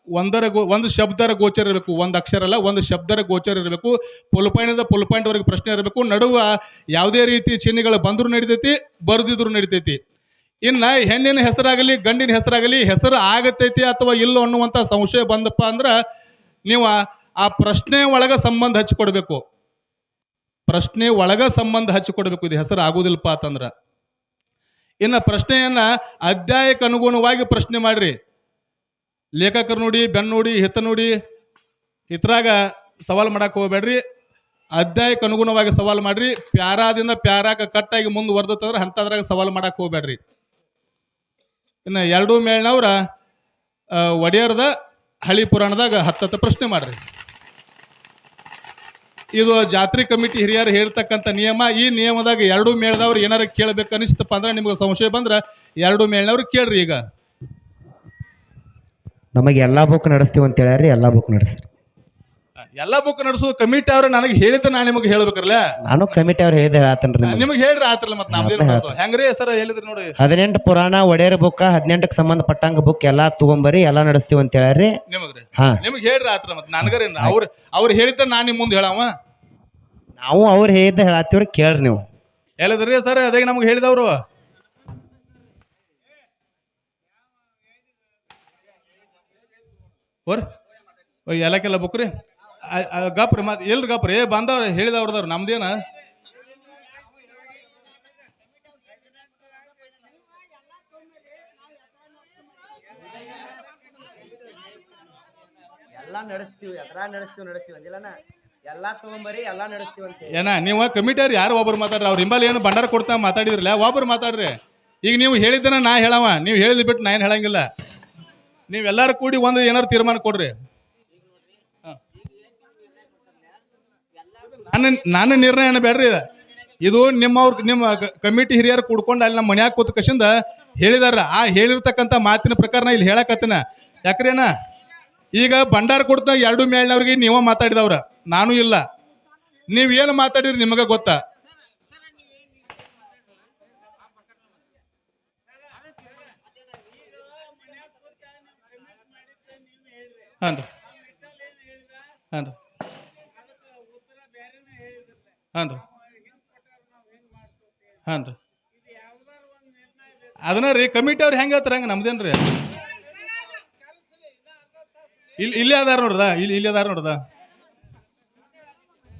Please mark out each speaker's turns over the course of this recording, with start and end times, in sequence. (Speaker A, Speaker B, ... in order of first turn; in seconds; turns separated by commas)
Speaker A: 0.1-10.0, Speaker A: 10.6-16.0, Speaker A: 16.7-19.4, Speaker A: 20.7-23.7, Speaker A: 25.0-28.2, Speaker A: 29.4-31.1, Speaker A: 32.1-34.0, Speaker A: 34.8-40.2, Speaker A: 41.9-43.0, Speaker A: 44.0-44.7, Speaker A: 45.2-47.0, Speaker A: 49.3-57.0, Speaker B: 59.4-61.7, Speaker A: 62.8-65.6, Speaker B: 65.9-67.5, Speaker A: 67.2-70.1, Speaker B: 68.3-69.0, Speaker B: 70.2-75.0, Speaker A: 75.1-79.1, Speaker B: 75.5-75.8, Speaker B: 80.2-82.1, Speaker A: 82.6-84.2, Speaker A: 91.3-92.1, Speaker A: 92.7-95.8, Speaker C: 105.9-110.4, Speaker A: 110.3-117.7, Speaker A: 118.7-120.5, Speaker A: 124.6-126.3, Speaker A: 126.8-134.5, Speaker A: 135.3-138.8, Speaker A: 139.7-141.2, Speaker A: 150.4-150.7, Speaker A: 155.5-155.8, Speaker A: 158.1-158.4, Speaker A: 160.4-162.4, Speaker A: 165.4-167.2